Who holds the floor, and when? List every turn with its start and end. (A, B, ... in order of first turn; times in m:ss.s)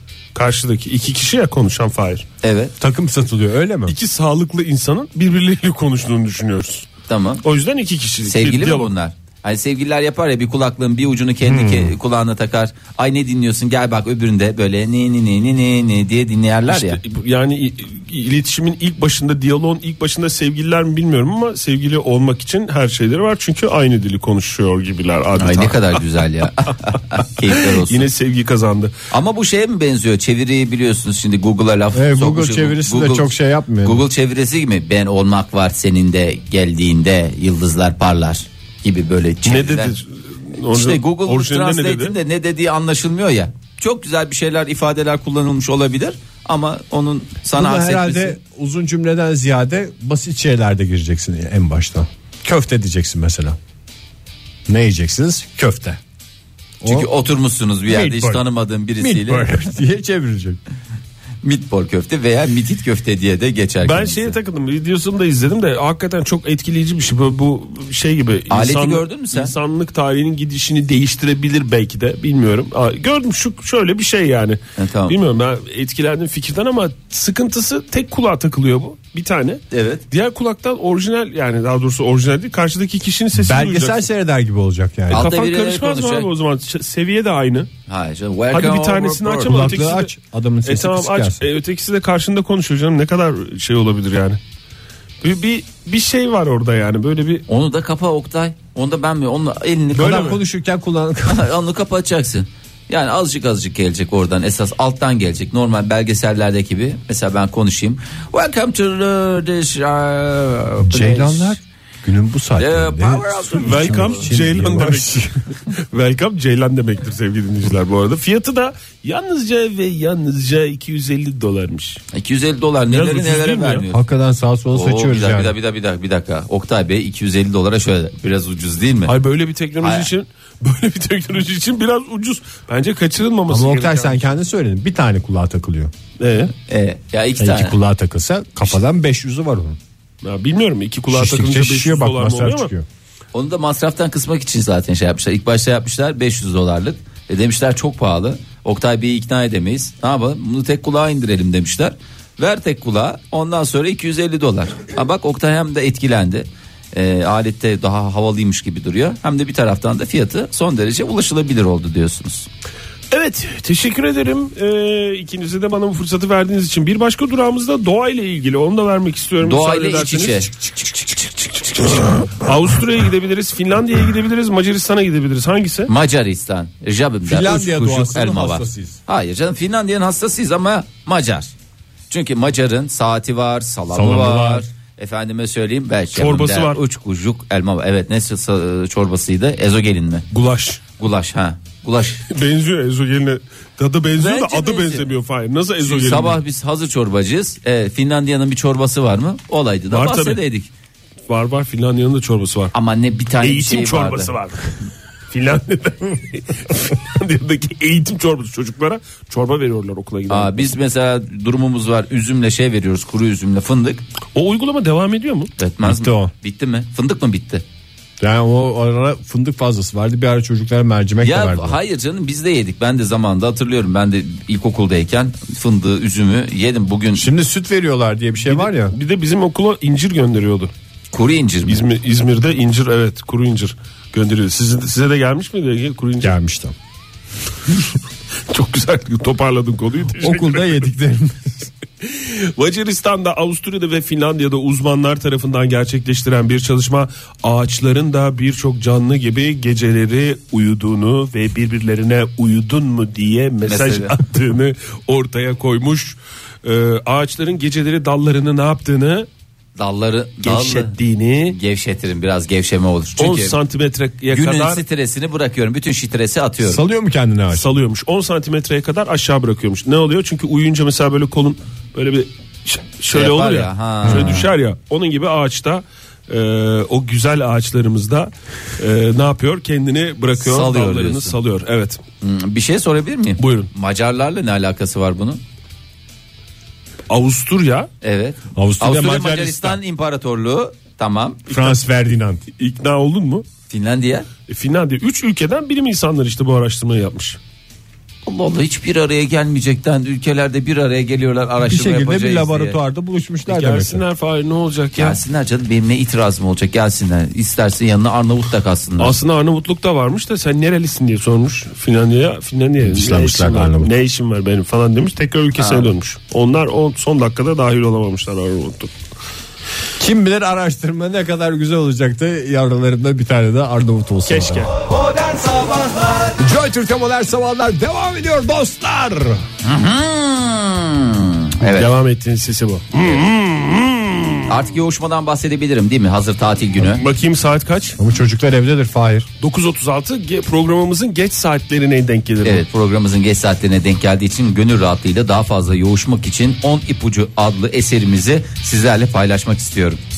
0:00.3-0:02.2 A
0:02.4-0:02.7 B
0:02.8-0:04.0 C
0:03.9-0:06.9 A
0:07.1-0:07.4 B
0:07.4-0:08.9 A
0:08.3-0:17.0 B
0:11.4-0:12.0 C
0:16.7-0:26.1 A
0:25.4-0:28.1 B
0:27.5-0:28.9 A
0:29.1-0:39.9 B
0:31.9-0:34.0 C
0:39.5-0:42.2 A
0:40.7-0:48.4 B
0:47.5-0:53.6 C
0:54.7-0:56.0 C
0:56.8-0:57.1 C
0:56.8-0:59.6 B
0:57.9-0:58.4 C
0:59.0-1:00.6 C
1:01.4-1:04.4 B
1:03.8-1:24.0 A
1:08.5-1:09.5 B
1:14.8-1:15.2 B
1:19.7-1:20.0 B
1:23.4-1:25.3 C
1:25.1-1:26.3 B
1:25.1-1:27.7 A
1:27.9-1:29.8 B
1:28.5-1:30.1 A
1:29.4-1:31.4 C
1:30.6-1:34.4 A
1:35.2-1:37.4 A
1:37.5-1:40.4 B
1:39.9-1:41.5 C
1:40.0-1:40.4 A
1:41.3-1:51.6 B
1:50.8-1:55.4 C
1:52.6-1:54.3 B
1:53.6-2:02.0 A
2:02.1-2:04.0 B
2:02.9-2:03.8 A
2:03.9-2:05.6 C
2:04.7-2:09.1 B
2:09.1-2:14.3 A
2:09.8-2:10.1 B
2:13.5-2:15.9 C
2:16.2-2:16.5 A
2:16.7-2:17.8 B
2:17.4-2:19.8 C
2:20.2-2:22.7 A
2:21.1-2:22.9 C
2:23.3-2:42.5 B
2:43.1-2:50.5 A
2:49.4-2:50.7 B
2:51.4-2:55.9 A
2:55.9-3:01.5 B
2:57.2-2:59.0 C
3:02.1-3:10.3 B
3:03.9-3:04.6 C
3:06.1-3:06.8 A
3:10.3-3:10.8 A
3:11.0-3:12.2 B
3:12.3-3:16.4 A
3:14.2-3:15.1 B
3:15.8-3:20.7 B
3:19.9-3:20.4 A
3:21.3-3:22.7 A
3:22.7-3:24.3 B
3:23.4-3:24.8 A
3:25.3-3:30.8 A
3:30.3-3:34.0 B
3:34.4-3:35.5 A
3:35.6-3:37.6 B
3:35.8-3:36.3 C
3:38.2-3:41.8 C
3:41.2-3:47.3 B
3:47.2-3:49.0 C
3:48.5-3:50.7 A
3:51.1-3:51.8 B
3:51.7-3:56.4 A
3:56.2-3:56.8 C
3:58.5-4:00.9 A
4:00.2-4:01.7 C
4:02.0-4:19.3 A
4:13.6-4:14.2 B
4:19.8-4:21.0 B
4:20.4-4:21.6 A
4:21.5-4:23.6 B
4:23.2-4:24.8 A
4:24.3-4:26.8 B
4:26.6-4:27.7 C
4:27.5-4:42.0 A
4:33.1-4:34.5 B
4:34.1-4:34.4 C
4:40.4-4:41.4 B
4:42.2-4:45.4 B
4:43.4-4:43.7 A
4:47.1-4:47.9 A
4:48.0-4:51.5 B
4:48.6-4:49.8 C
4:51.5-4:52.4 C
4:52.6-4:53.4 A
4:53.7-4:54.3 B
4:54.5-4:57.4 A
4:58.3-5:02.8 B
5:01.6-5:04.0 C
5:03.5-5:05.2 A
5:05.0-5:09.2 B
5:09.0-5:18.9 A
5:12.8-5:13.9 C
5:15.6-5:15.9 B
5:20.0-5:24.6 C
5:24.3-5:24.8 A
5:26.4-5:29.4 C
5:29.6-5:31.9 B
5:31.6-5:34.6 A
5:34.5-5:37.0 B
5:36.8-5:38.0 A
5:38.0-5:39.3 C
5:39.4-5:42.6 A
5:42.4-5:50.0 B